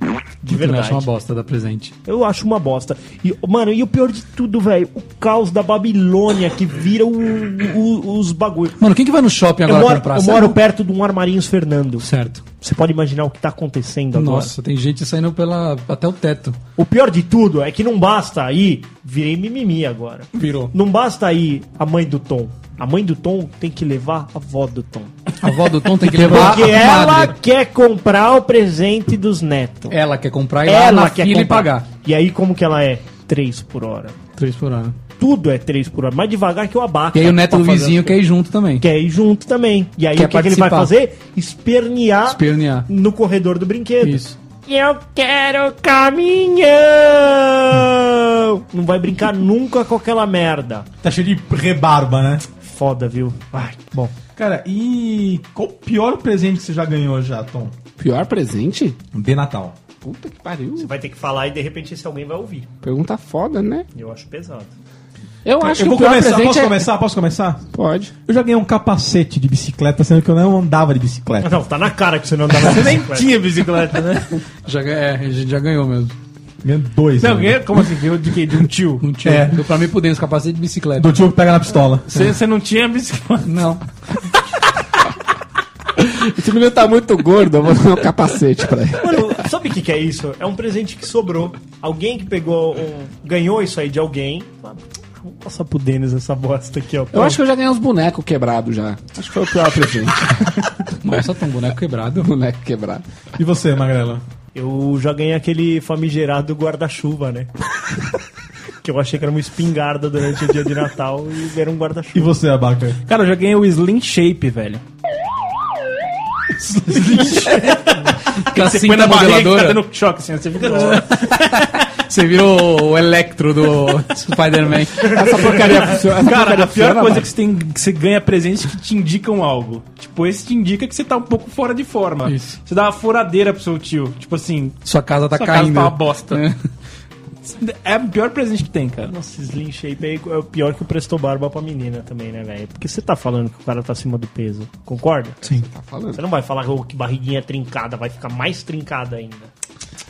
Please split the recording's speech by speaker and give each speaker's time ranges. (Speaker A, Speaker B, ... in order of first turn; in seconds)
Speaker A: 0.4-1.1, 2.0-8.8, 9.7-12.1, 12.6-14.5, 16.8-25.3, 26.0-30.0, 30.7-34.2, 35.2-38.2, 38.8-50.9, 52.6-54.1, 60.8-62.7, 64.0-64.7, 71.4-73.3, 89.0-97.4, 104.5-107.5, 108.8-112.3, 125.2-125.8, 139.1-145.4, 146.1-149.5
Speaker B: 0.5-1.9, 8.8-10.6, 12.0-12.4, 14.1-16.6, 20.3-20.7, 25.4-27.4, 29.9-31.9, 34.4-35.0, 37.1-38.9, 40.1-40.9, 42.3-42.9, 44.0-44.4, 74.6-76.2, 79.0-81.2, 83.5-83.8, 101.0-102.3, 118.4-119.8, 120.7-125.2, 132.3-132.6, 134.8-136.6
Speaker C: 51.0-52.4, 54.4-57.8, 59.1-59.8, 65.6-67.7, 68.3-71.6, 76.6-77.8, 79.2-79.7, 81.0-82.2, 103.4-104.2, 112.1-113.0
Speaker D: 58.0-59.0, 60.0-60.9, 62.8-63.9, 65.5-66.9, 67.7-68.1, 86.0-89.3, 97.1-100.7, 102.2-103.0, 125.0-127.3, 145.4-146.2
Speaker E: 72.6-74.4, 77.2-79.1, 82.1-83.5, 113.1-114.8, 116.9-121.1, 126.0-134.8, 135.3-136.4, 137.4-139.1